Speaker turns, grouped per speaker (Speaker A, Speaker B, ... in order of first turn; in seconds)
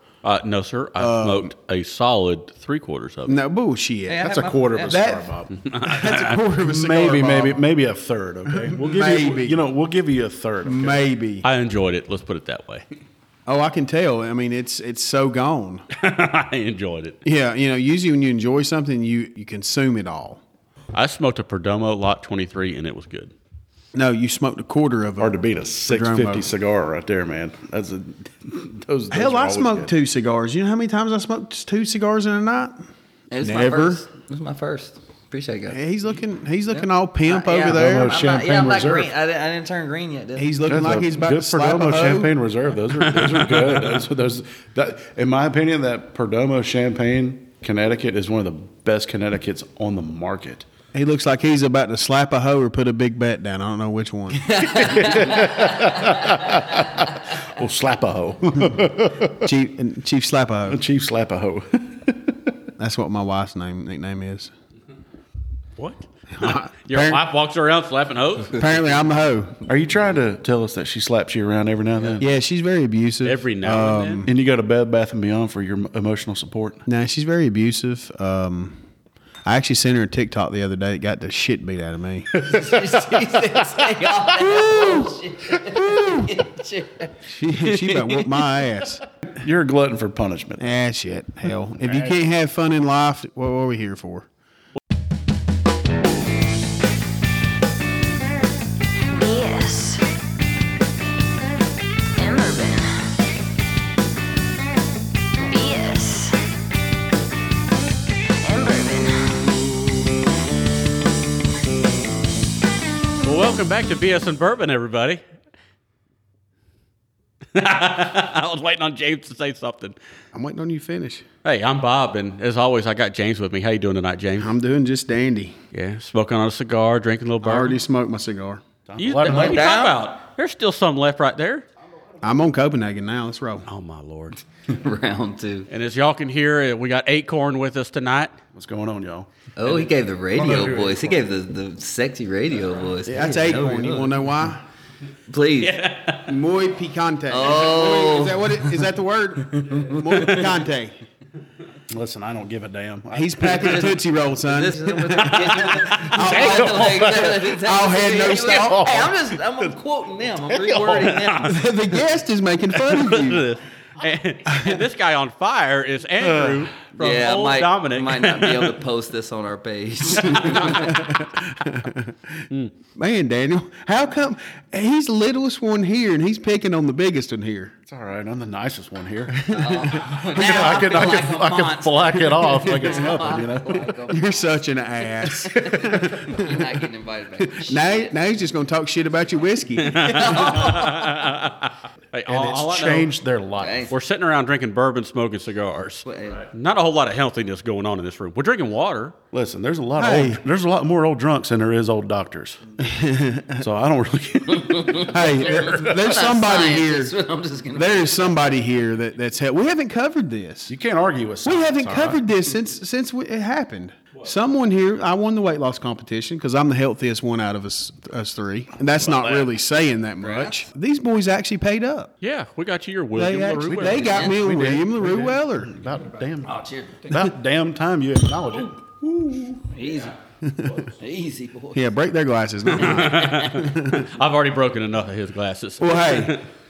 Speaker A: 0.2-3.4, 5.5-6.3, 11.4-12.8, 15.9-17.2, 20.9-23.3, 43.0-43.8, 65.8-68.6, 73.2-74.2, 113.2-115.2, 117.5-120.0, 121.4-124.5, 125.7-127.8, 129.0-131.6, 133.7-134.4, 135.7-138.4, 145.6-146.3, 162.8-168.8, 170.2-171.0, 189.8-193.1, 193.9-199.2, 222.2-224.3, 232.7-236.4
Speaker B: 1.0-1.5, 3.3-7.6, 8.5-9.6, 10.6-11.4, 13.4-15.8, 17.2-20.4, 23.9-25.4, 25.9-26.5, 29.1-32.8, 33.4-34.0, 35.7-38.1, 40.4-42.3, 50.9-54.6, 59.3-60.8, 62.8-64.5, 66.4-67.2, 68.5-69.6, 72.2-74.3, 76.8-78.8, 79.5-82.4, 84.3-86.5, 87.2-89.0, 90.6-94.3, 120.3-121.2, 124.4-125.5, 127.4-128.6, 132.2-133.7, 143.1-144.6, 146.2-151.0, 153.1-158.9, 161.5-163.5, 164.5-164.8, 170.4-172.1, 172.9-177.7, 179.3-181.1, 184.1-186.8, 187.4-190.8, 200.0-200.4, 202.8-203.6, 205.1-207.1, 207.7-210.7, 211.4-222.1, 223.1-225.7, 230.4-230.9, 231.7-234.1, 235.8-236.4
Speaker C: 4.1-5.0, 33.3-35.8, 36.8-40.5, 54.5-55.8, 82.4-88.2, 99.1-100.0, 102.2-103.1, 105.5-106.4, 108.4-109.4, 129.6-129.9, 134.7-135.7, 139.6-144.2, 145.3-145.9, 147.3-148.7, 149.6-150.5, 153.5-153.9, 154.4-161.6, 167.0-171.0, 179.5-184.3, 185.2-188.1, 190.0-191.0, 193.6-193.9, 196.0-196.4, 204.5-208.3, 220.2-220.6, 226.4-227.2, 229.6-230.1, 231.0-231.8, 233.1-233.6
Speaker D: 4.2-5.5, 6.1-11.1, 25.2-29.9, 37.6-39.1, 40.6-50.6, 54.5-59.5, 60.7-62.6, 69.7-72.3, 74.2-76.8, 82.4-84.1, 89.3-90.7, 91.8-92.1, 128.9-129.9, 138.5-141.2, 151.9-154.0, 155.4-157.4, 158.1-159.7, 160.5-161.4, 166.2-166.7, 177.9-184.0, 192.3-193.9, 199.3-202.6, 203.6-205.9, 210.7-212.2, 218.9-219.5, 223.6-229.6